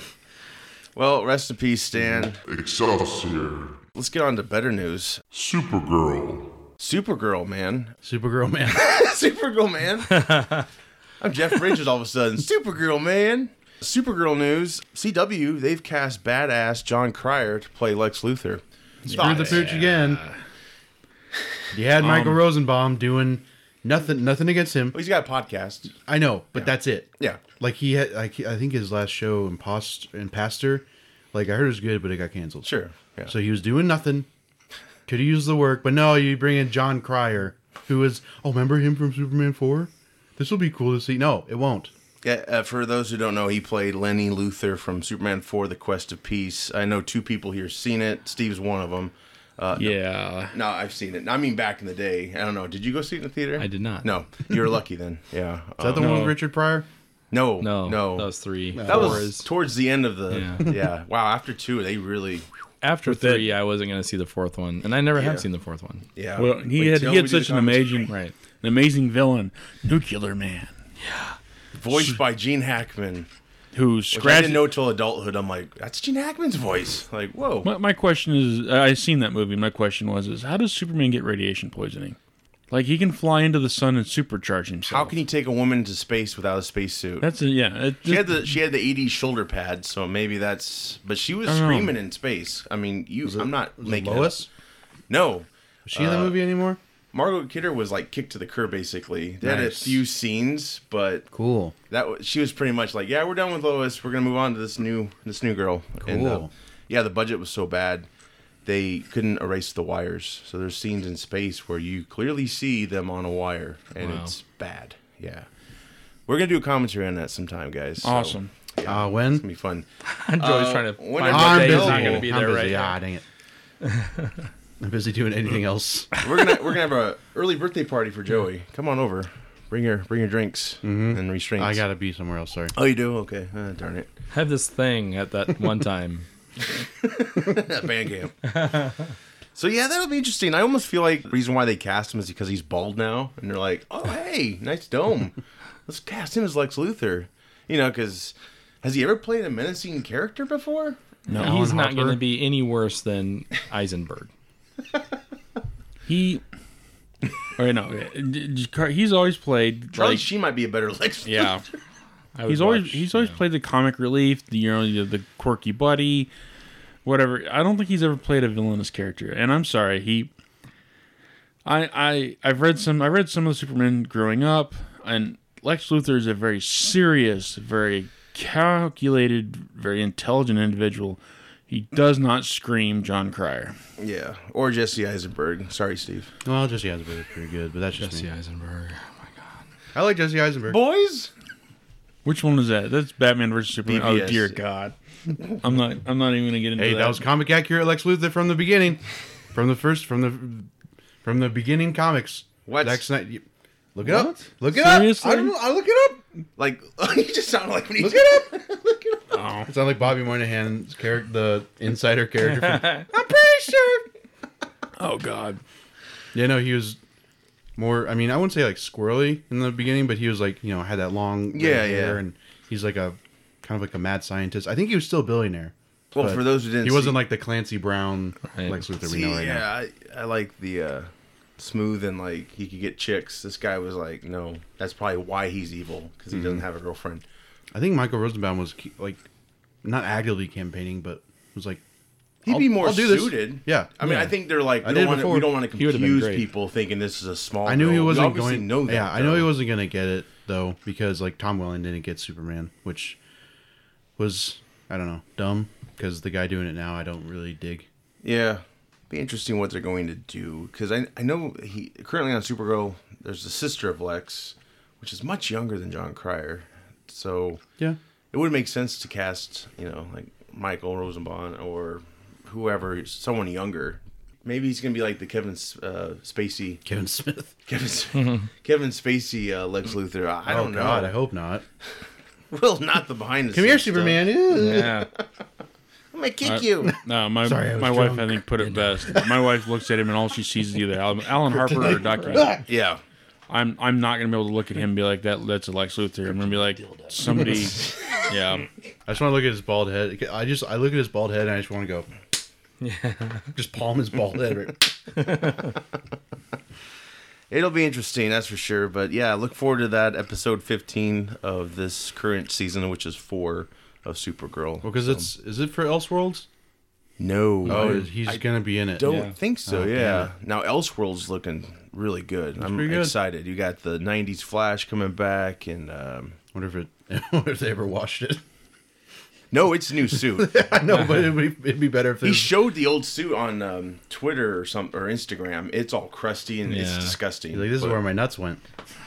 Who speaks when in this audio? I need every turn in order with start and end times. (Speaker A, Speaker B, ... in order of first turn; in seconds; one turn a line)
Speaker A: 0.9-2.4
Speaker B: 2.4-3.8
Speaker A: 3.9-5.2
Speaker B: 5.3-6.6
Speaker A: 6.8-7.9
Speaker C: 8.0-8.9
Speaker A: 8.7-10.6
Speaker A: 11.2-19.7
Speaker D: 19.0-20.4
Speaker C: 19.1-20.2
Speaker C: 21.7-25.0
Speaker D: 22.0-22.4
Speaker A: 24.9-25.9
Speaker C: 26.1-32.7
Speaker A: 26.5-27.4
Speaker A: 32.6-33.3
Speaker C: 33.3-34.3
Speaker C: 35.1-41.9
Speaker A: 42.2-50.0
Speaker D: 49.8-50.5
Speaker A: 50.5-56.2
Speaker E: 53.6-54.1
Speaker C: 55.8-56.9
Speaker D: 56.0-56.4
Speaker A: 57.3-62.5
Speaker E: 57.6-59.5
Speaker C: 58.7-59.3
Speaker E: 60.3-60.6
Speaker E: 62.8-66.0
Speaker D: 63.0-63.5
Speaker A: 65.1-65.4
Speaker A: 66.1-68.1
Speaker D: 66.3-70.7
Speaker E: 68.1-68.3
Speaker E: 71.0-71.4
Speaker A: 71.8-73.3
Speaker D: 73.7-74.7
Speaker A: 74.1-77.7
Speaker D: 77.6-82.2
Speaker D: 82.7-85.2
Speaker A: 84.9-87.3
Speaker D: 87.2-88.5
Speaker A: 88.0-94.5
Speaker D: 91.5-91.9
Speaker C: 93.2-94.5
Speaker A: 95.1-96.4
Speaker C: 95.8-96.8
Speaker A: 97.1-101.3
Speaker C: 99.4-100.0
Speaker C: 101.3-101.7
Speaker A: 101.9-108.1
Speaker C: 106.0-106.5
Speaker A: 108.6-115.5
Speaker E: 114.0-114.3
Speaker A: 116.3-119.8
Speaker D: 118.0-118.5
Speaker C: 118.8-119.4
Speaker E: 120.0-123.0
Speaker A: 120.4-122.3
Speaker C: 121.2-123.2
Speaker D: 121.7-122.2
Speaker E: 124.0-124.3
Speaker C: 124.8-126.1
Speaker A: 126.2-131.8
Speaker C: 130.8-132.7
Speaker A: 132.7-134.1
Speaker E: 134.3-136.3
Speaker A: 137.0-138.9
Speaker A: 139.6-151.0
Speaker D: 151.3-151.6
Speaker C: 151.3-152.2
Speaker E: 151.3-154.3
Speaker D: 156.1-156.4
Speaker D: 157.6-160.3
Speaker A: 159.9-161.5
Speaker D: 161.2-161.6
Speaker E: 162.3-163.4
Speaker D: 162.4-166.3
Speaker D: 167.0-170.3
Speaker D: 171.6-183.8
Speaker A: 184.0-186.3
Speaker C: 186.4-188.3
Speaker E: 188.0-189.6
Speaker C: 189.9-190.8
Speaker A: 190.7-191.3
Speaker D: 192.2-197.2
Speaker A: 193.8-194.6
Speaker C: 196.8-199.0
Speaker C: 199.5-200.7
Speaker C: 201.2-206.2
Speaker A: 202.7-203.0
Speaker D: 204.1-205.5
Speaker A: 206.6-208.6
Speaker C: 208.0-214.1
Speaker D: 209.3-209.7
Speaker E: 212.7-213.0
Speaker D: 215.0-215.6
Speaker C: 216.3-217.0
Speaker C: 217.8-229.7
Speaker A: 221.5-222.2
Speaker A: 226.1-227.2
Speaker E: 228.5-228.8
Speaker A: 229.0-237.2
Speaker C: 236.3-236.6
Speaker C: 237.7-239.3
Speaker C: 239.8-241.8
Speaker C: 242.4-245.6
Speaker A: 242.4-249.5
Speaker E: 244.0-244.3
Speaker E: 245.8-246.5
Speaker C: 247.6-253.2
Speaker C: 254.2-257.9
Speaker A: 258.2-267.6
Speaker A: 268.3-276.8
Speaker C: 276.9-277.5
Speaker A: 277.7-281.1
Speaker E: 278.1-278.5
Speaker C: 280.4-281.6
Speaker A: 282.5-285.2
Speaker C: 283.5-285.1
Speaker E: 284.5-285.1
Speaker A: 286.1-286.9
Speaker D: 286.4-292.6
Speaker C: 286.8-288.4
Speaker E: 288.6-289.1
Speaker C: 289.1-289.4
Speaker C: 291.4-292.6
Speaker A: 292.7-293.0
Speaker D: 293.5-298.6
Speaker E: 298.3-298.6
Speaker C: 299.1-302.1
Speaker E: 302.8-303.5
Speaker C: 303.5-305.5
Speaker E: 305.2-305.6
Speaker A: 307.5-315.3
Speaker C: 314.8-316.5
Speaker A: 317.2-326.4
Speaker C: 317.6-320.3
Speaker E: 319.0-319.4
Speaker C: 322.6-323.1
Speaker C: 326.5-328.4
Speaker A: 329.5-330.7
Speaker C: 330.1-332.6
Speaker A: 332.2-338.0
Speaker E: 336.7-337.1
Speaker C: 337.5-338.6